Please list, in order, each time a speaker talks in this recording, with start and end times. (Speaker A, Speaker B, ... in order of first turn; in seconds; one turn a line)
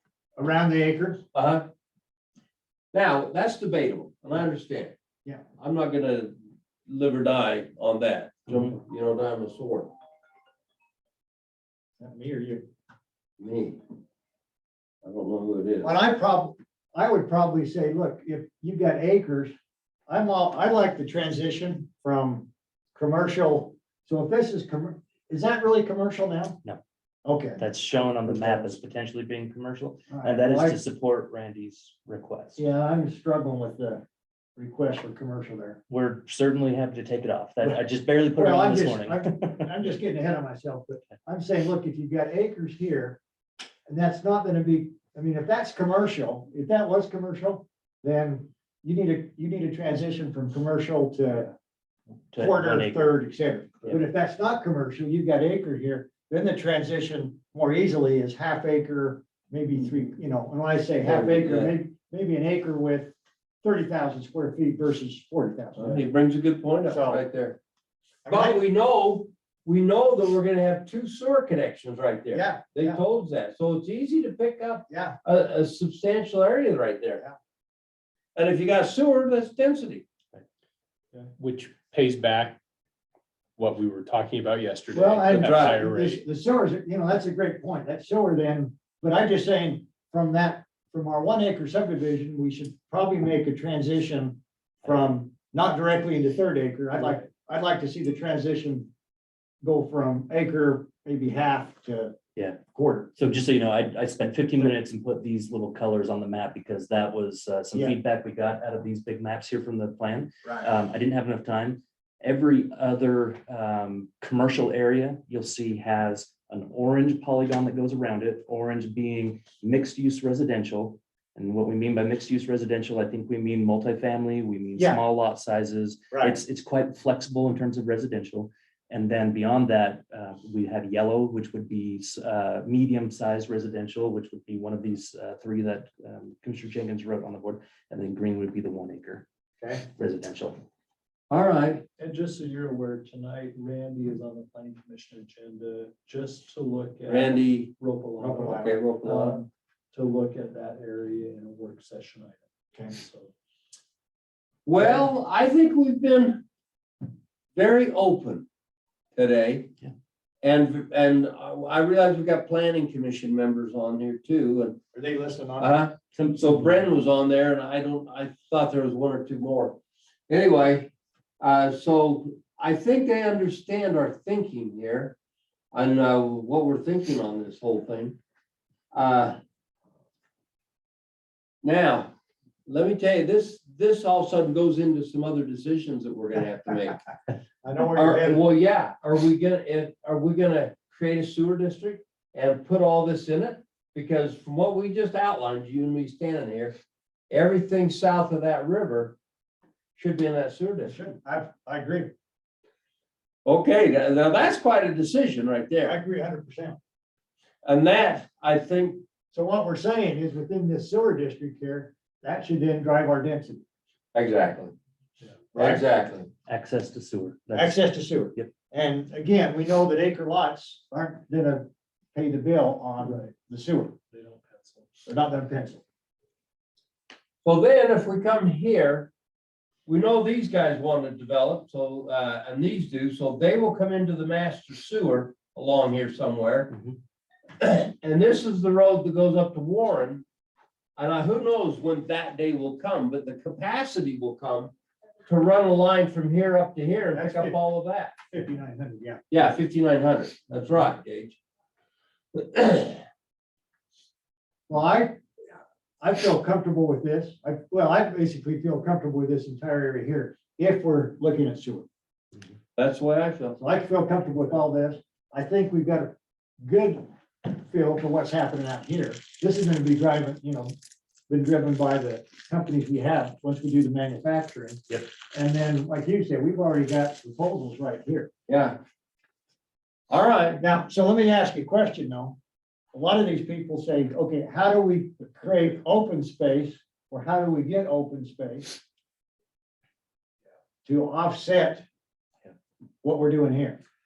Speaker A: 0.3-1.2
Speaker B: 1.3-1.7
Speaker B: 2.9-5.0
Speaker B: 5.6-9.9
Speaker A: 12.0-12.7
Speaker B: 13.4-13.8
Speaker B: 15.0-15.9
Speaker A: 15.8-19.5
Speaker A: 20.1-26.6
Speaker A: 27.2-27.6
Speaker C: 27.6-32.6
Speaker A: 28.2-28.8
Speaker A: 30.1-30.8
Speaker A: 32.6-34.0
Speaker A: 34.6-35.8
Speaker C: 35.9-39.7
Speaker A: 38.4-43.2
Speaker A: 43.9-51.5
Speaker C: 52.3-53.1
Speaker A: 52.4-66.0
Speaker B: 61.0-61.7
Speaker B: 65.8-67.6
Speaker A: 66.8-67.2
Speaker A: 68.2-68.6
Speaker B: 68.3-77.2
Speaker A: 72.3-73.0
Speaker A: 74.9-75.2
Speaker B: 78.3-80.0
Speaker D: 81.4-82.6
Speaker D: 83.6-86.2
Speaker A: 84.9-98.9
Speaker B: 85.3-85.8
Speaker A: 99.6-102.2
Speaker A: 102.7-103.1
Speaker C: 103.2-139.2
Speaker A: 126.1-126.4
Speaker C: 139.9-140.6
Speaker B: 141.3-141.8
Speaker E: 142.0-153.3
Speaker B: 147.1-147.7
Speaker A: 148.2-148.7
Speaker B: 148.4-149.4
Speaker B: 154.7-156.4
Speaker B: 157.5-158.5
Speaker B: 159.2-159.7
Speaker B: 160.4-164.8
Speaker A: 164.9-165.7
Speaker B: 165.6-169.8
Speaker C: 166.1-166.8
Speaker B: 170.3-175.1
Speaker B: 175.7-178.2
Speaker B: 178.9-179.4
Speaker B: 181.6-182.1
Speaker B: 182.7-187.0
Speaker A: 187.6-188.4
Speaker B: 187.9-196.8
Speaker B: 197.3-199.2
Speaker B: 199.9-200.9
Speaker A: 200.9-202.1
Speaker B: 203.4-206.0
Speaker A: 205.8-206.8
Speaker B: 207.6-209.0
Speaker A: 209.3-213.6
Speaker B: 214.1-214.7
Speaker A: 215.5-215.8
Speaker B: 215.5-216.3
Speaker C: 216.5-218.5
Speaker A: 217.5-223.9
Speaker E: 223.0-223.3
Speaker E: 224.1-224.9
Speaker A: 225.1-225.8
Speaker B: 227.4-229.1
Speaker B: 229.8-236.7
Speaker B: 237.6-240.2
Speaker B: 241.0-244.7
Speaker B: 245.3-248.1
Speaker A: 247.1-247.6
Speaker A: 248.3-249.2
Speaker B: 249.3-251.4
Speaker B: 252.3-253.0
Speaker A: 254.7-255.2
Speaker A: 256.0-261.9
Speaker B: 262.8-263.6
Speaker A: 263.6-270.7
Speaker A: 271.3-278.3
Speaker B: 278.5-278.8
Speaker B: 280.1-280.6
Speaker A: 280.6-282.4
Speaker A: 282.9-288.8
Speaker A: 290.8-291.8
Speaker A: 293.0-293.8